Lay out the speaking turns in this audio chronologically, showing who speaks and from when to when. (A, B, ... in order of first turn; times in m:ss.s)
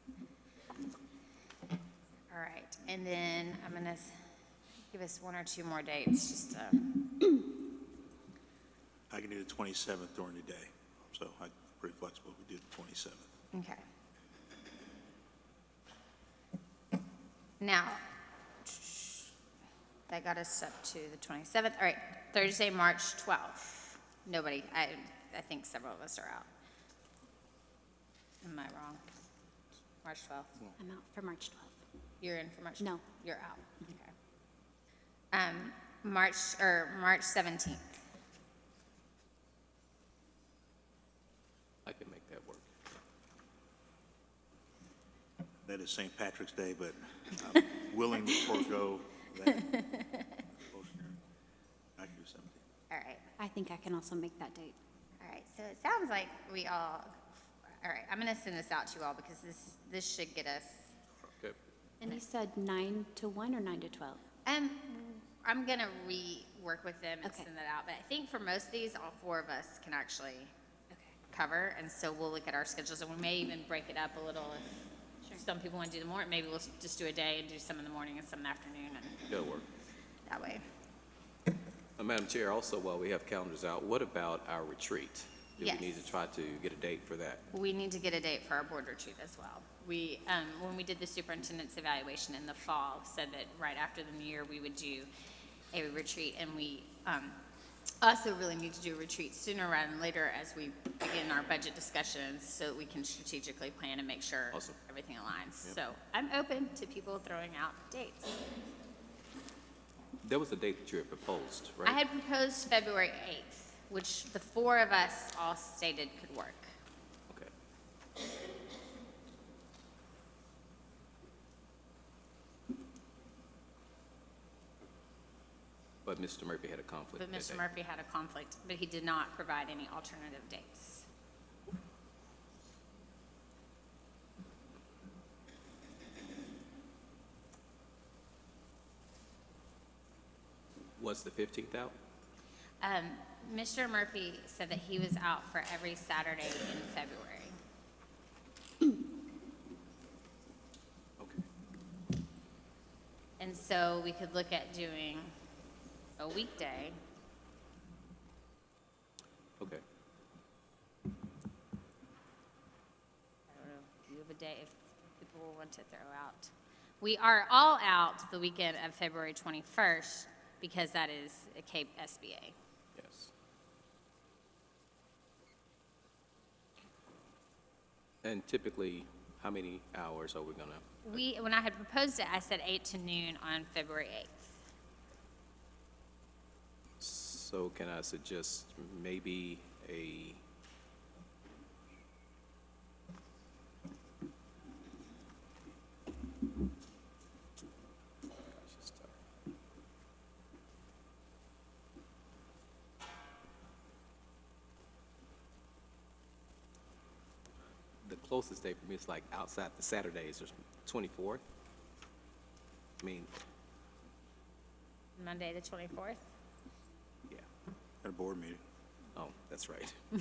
0:02.3-0:04.2 A
0:04.9-0:07.3 A
0:09.1-0:13.3 B
0:13.5-0:13.8 A
0:17.6-0:18.0 A
0:18.6-0:19.3 A
0:20.1-0:26.4 A
0:28.4-0:29.0 A
0:30.0-0:30.5 A
0:30.8-0:31.8 C
0:32.2-0:34.1 A
0:35.3-0:38.0 A
0:41.8-0:42.7 D
0:45.6-0:49.8 B
0:49.5-0:50.4 A
0:50.5-0:51.2 B
0:52.0-0:52.6 B
0:52.9-0:53.2 A
0:53.4-0:54.8 C
0:55.2-1:00.9 A
1:02.0-1:04.2 C
1:04.4-1:10.5 A
1:11.3-1:19.3 A
1:19.3-1:19.7 D
1:20.3-1:20.6 A
1:22.0-1:27.4 D
1:25.6-1:26.1 A
1:27.5-1:35.1 A
1:35.7-1:37.4 A
1:38.0-1:48.4 A
1:44.5-1:44.8 D
1:50.2-1:52.0 D
1:51.8-1:56.7 A
2:06.0-2:07.6 D
2:07.2-2:11.1 A
2:21.0-2:21.9 D
2:22.8-2:27.6 A
2:31.2-2:31.4 D
2:33.4-2:35.3 A
2:36.2-2:37.0 A
2:43.5-2:52.5 A
2:53.0-2:53.3 D
2:58.2-3:01.2 D
3:01.1-3:04.6 A
3:07.0-3:10.4 D
3:18.4-3:19.2 D
3:28.0-3:31.4 D
3:33.0-3:33.3 D
3:35.2-3:36.2 A
3:38.0-3:38.6 B
3:39.2-3:40.0 D